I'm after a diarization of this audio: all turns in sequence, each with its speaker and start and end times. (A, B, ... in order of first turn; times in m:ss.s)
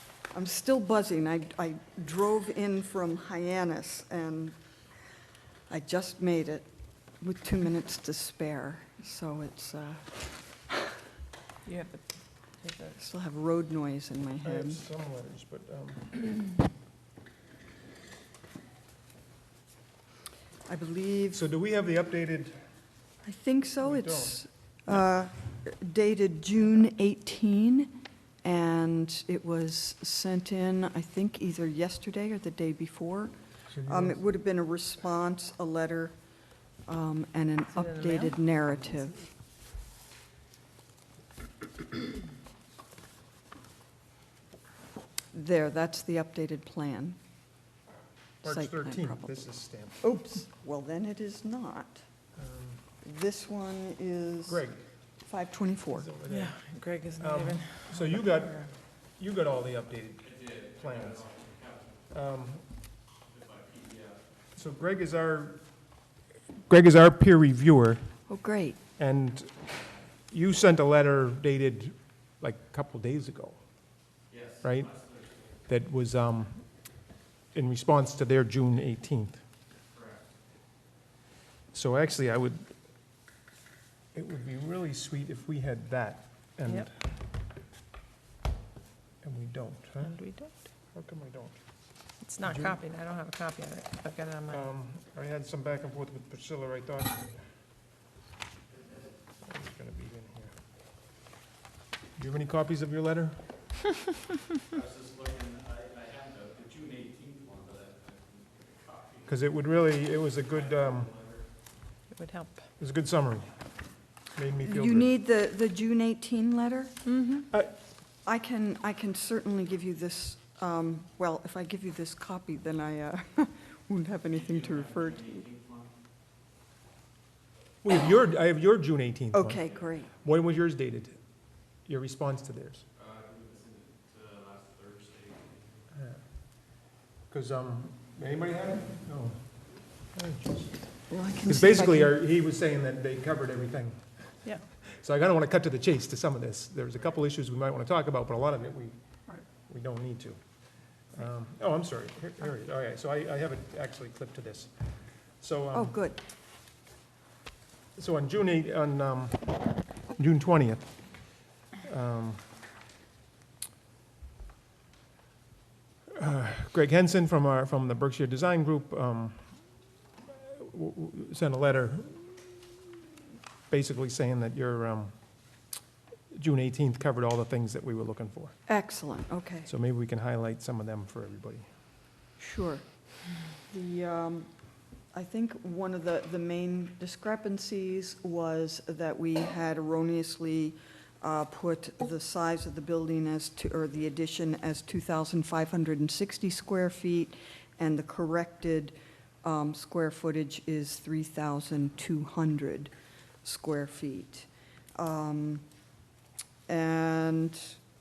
0:00.3-0:04.6 A
0:05.7-0:06.7 A
0:07.2-0:10.2 A
0:11.6-0:13.0 B
0:13.0-0:14.8 A
0:14.4-0:16.5 C
0:20.6-0:21.4 A
0:21.3-0:22.6 C
0:23.2-0:36.2 A
0:23.8-0:24.4 C
0:33.7-0:34.2 C
0:36.8-0:39.3 A
0:37.8-0:38.3 B
0:45.3-0:47.2 A
0:48.4-0:50.0 C
0:48.4-0:49.4 A
0:50.0-0:52.0 A
0:52.4-0:52.8 C
0:53.0-0:54.6 A
0:54.5-0:54.8 C
0:55.2-0:56.1 A
0:55.9-0:56.6 C
0:56.3-0:58.1 B
0:57.2-1:01.4 C
1:02.1-1:02.6 C
1:04.6-1:05.6 C
1:06.7-1:08.0 C
1:08.3-1:08.8 A
1:09.0-1:09.5 C
1:10.3-1:13.6 C
1:14.6-1:15.0 C
1:15.7-1:16.6 C
1:17.5-1:19.4 C
1:21.7-1:22.6 C
1:24.1-1:26.9 C
1:29.2-1:30.2 C
1:30.0-1:30.6 B
1:30.9-1:31.6 C
1:32.2-1:34.6 B
1:32.4-1:32.8 C
1:34.5-1:37.4 C
1:39.4-1:40.5 C
1:42.2-1:43.4 C
1:49.2-1:51.2 C
1:52.1-1:52.6 B
1:52.8-1:53.5 C
1:54.3-1:55.1 C
1:54.6-1:57.0 A
1:57.0-1:57.5 B
1:58.2-2:05.4 A
2:07.8-2:11.2 C
2:09.3-2:10.1 A
2:11.8-2:12.8 C
2:15.9-2:16.2 C
2:17.3-2:29.0 C
2:21.1-2:22.1 A
2:29.5-2:30.4 C
2:31.1-2:34.7 C
2:35.4-2:36.0 C
2:35.7-2:36.2 A
2:38.0-2:40.8 C
2:41.8-2:42.4 C
2:46.1-2:49.6 C
2:50.3-2:52.8 C
2:53.7-2:55.1 C
2:56.3-2:58.5 C
2:58.7-2:59.7 A
2:59.6-3:01.7 C
3:02.4-3:02.8 A
3:03.7-3:04.5 A
3:05.1-3:22.9 A
3:23.4-3:25.6 A
3:26.7-3:27.8 A